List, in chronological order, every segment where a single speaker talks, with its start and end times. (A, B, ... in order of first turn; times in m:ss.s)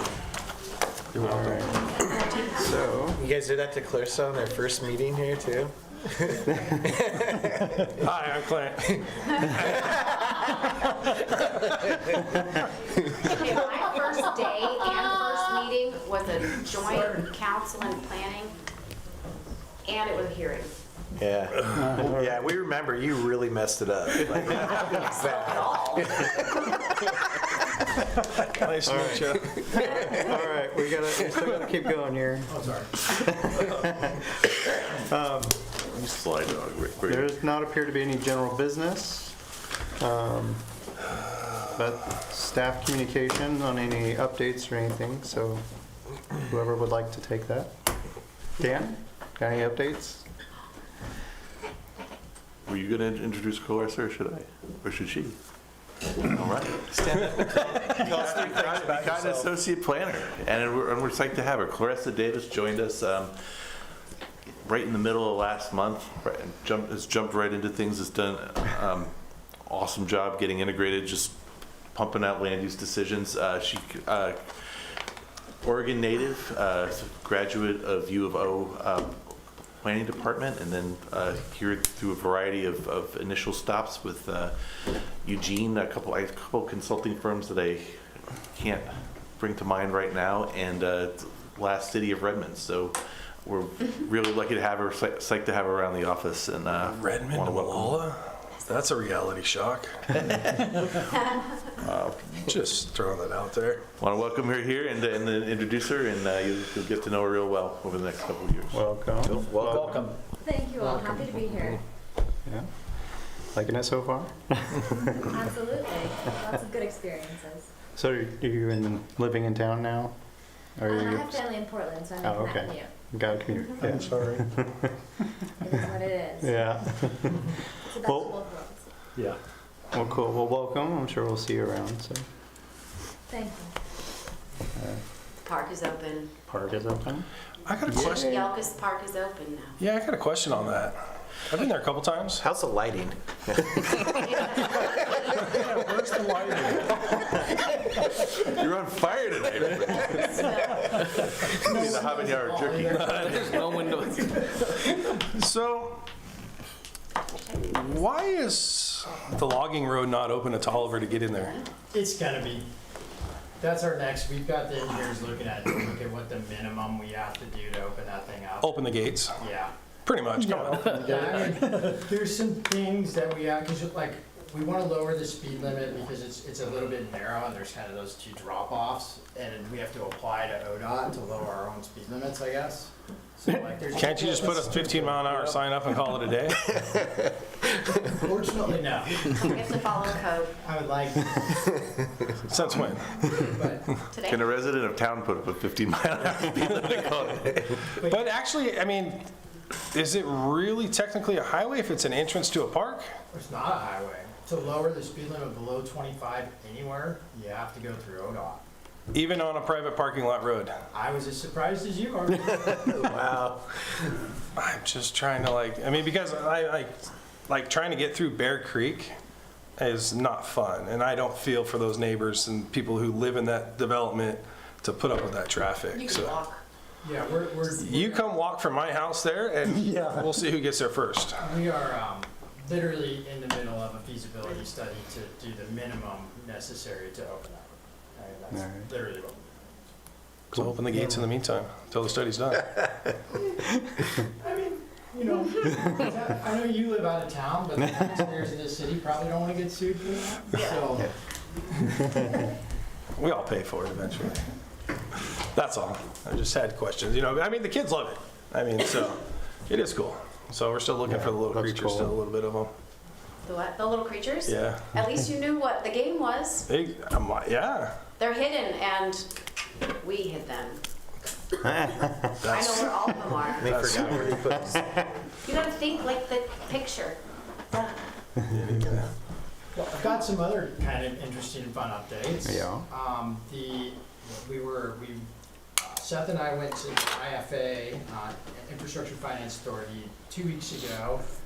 0:01.1-0:01.7 A
0:01.2-0:03.2 B
0:03.1-0:08.0 C
0:07.8-0:09.8 A
0:09.6-0:10.4 C
0:11.6-0:12.0 C
0:13.2-0:18.5 D
0:19.8-0:20.7 D
0:21.2-0:26.3 C
0:21.7-0:22.4 B
0:24.8-0:27.1 D
0:28.4-0:29.9 A
0:28.8-0:32.5 B
0:29.0-0:29.6 C
0:32.5-0:32.9 E
0:33.1-0:34.2 B
0:35.0-0:35.7 B
0:35.8-0:37.3 F
0:37.0-0:39.4 B
0:40.0-0:40.6 B
0:41.7-0:45.6 B
0:46.4-0:47.7 B
0:48.6-0:50.2 B
0:52.6-0:55.4 F
0:56.3-1:03.4 F
0:56.8-0:59.5 C
1:04.6-1:09.1 F
1:09.6-1:11.4 F
1:11.9-1:14.8 F
1:15.6-1:19.2 F
1:19.8-1:24.5 F
1:25.2-1:38.0 F
1:36.8-1:40.9 A
1:41.0-1:41.6 D
1:41.8-1:42.5 F
1:42.4-1:43.8 A
1:44.0-1:48.8 F
1:48.7-1:50.0 B
1:49.2-1:50.1 C
1:50.4-1:51.8 G
1:53.5-1:55.2 B
1:55.1-1:57.7 G
1:57.9-2:00.1 B
2:00.8-2:01.5 B
2:00.9-2:02.9 G
2:02.2-2:04.8 B
2:05.6-2:06.7 G
2:06.4-2:08.4 B
2:07.9-2:08.9 G
2:09.9-2:12.2 B
2:13.3-2:13.7 G
2:14.7-2:15.0 B
2:15.4-2:16.3 D
2:16.5-2:17.2 B
2:17.7-2:18.4 A
2:17.9-2:18.4 B
2:18.1-2:19.8 D
2:19.8-2:21.0 A
2:21.5-2:22.4 A
2:22.4-2:24.1 C
2:24.2-2:25.4 D
2:25.4-2:27.3 A
2:28.3-2:30.6 F
2:30.0-2:30.9 D
2:31.3-2:33.0 F
2:31.5-2:35.0 E
2:31.7-2:32.0 A
2:32.9-2:33.8 A
2:35.2-2:36.0 A
2:37.6-2:41.6 A
2:41.9-2:42.7 E
2:43.6-2:49.7 E
2:48.6-2:49.4 A
2:50.0-2:51.6 A
2:50.3-3:05.5 E
3:03.9-3:06.7 A
3:08.0-3:09.4 E
3:09.3-3:10.5 D
3:10.6-3:11.8 E
3:12.5-3:13.3 A
3:12.5-3:13.9 E
3:14.1-3:14.6 D
3:14.3-3:17.8 F
3:17.9-3:18.3 E
3:18.0-3:19.3 A
3:19.9-3:23.0 A
3:23.3-3:28.6 E
3:29.1-3:30.7 A
3:30.9-3:33.1 E
3:32.7-3:34.2 C
3:34.5-3:39.1 A
3:39.8-3:46.4 A
3:45.9-3:46.6 D
3:47.0-3:48.3 E
3:47.8-3:51.4 A
3:51.4-3:59.8 E
3:58.5-3:58.8 B
4:00.5-4:02.7 A
4:00.5-4:01.0 B
4:04.4-4:11.1 E
4:10.5-4:10.8 D
4:13.2-4:14.4 A
4:15.2-4:22.7 A
4:21.0-4:22.1 B
4:23.4-4:26.6 D
4:24.5-4:24.9 A
4:26.7-4:27.9 A
4:28.2-4:29.3 D
4:30.0-4:30.8 D
4:31.6-4:32.4 B
4:32.4-4:34.6 A
4:32.5-4:33.7 D
4:33.6-4:35.1 C
4:35.4-4:37.2 D
4:37.7-4:38.0 D
4:38.5-4:39.1 A
4:39.7-4:45.3 E
4:42.4-4:42.8 B
4:45.8-4:51.2 E